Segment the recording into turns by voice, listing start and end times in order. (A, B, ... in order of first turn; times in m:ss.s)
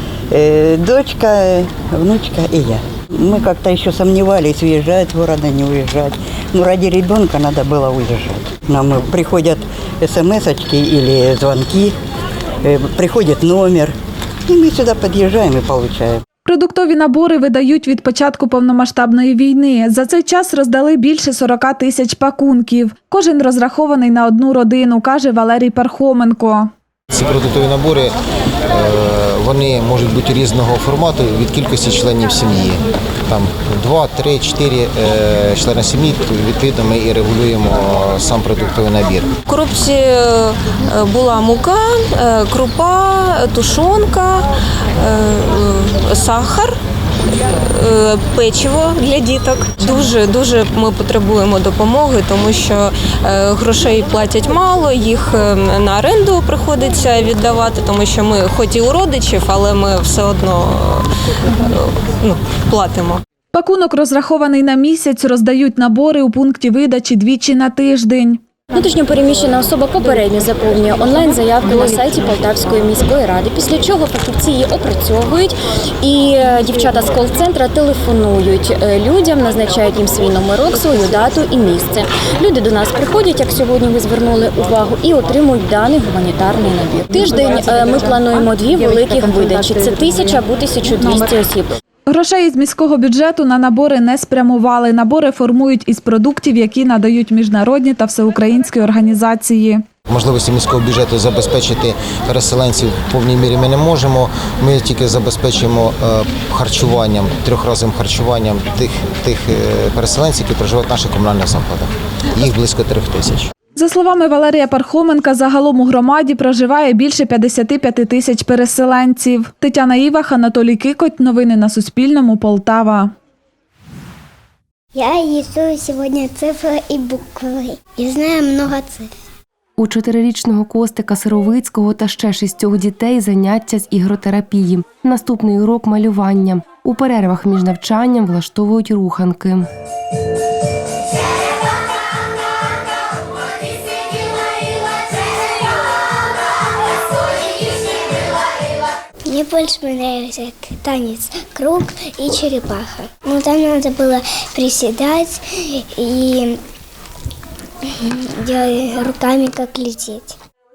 0:00.3-0:11.9 A
0:12.6-0:13.9 A
0:14.5-0:16.2 A
0:16.4-0:26.7 B
0:27.1-0:28.1 C
0:28.7-0:39.3 C
0:39.5-0:44.4 D
0:45.0-0:46.8 D
0:47.6-1:01.0 D
1:01.6-1:03.2 D
1:03.5-1:08.4 B
1:08.7-1:31.7 E
1:32.1-1:39.8 B
1:40.1-1:53.5 C
1:53.8-2:03.1 B
2:04.9-2:09.1 F
2:09.8-2:19.7 G
2:29.3-2:36.6 F
2:38.0-2:40.3 F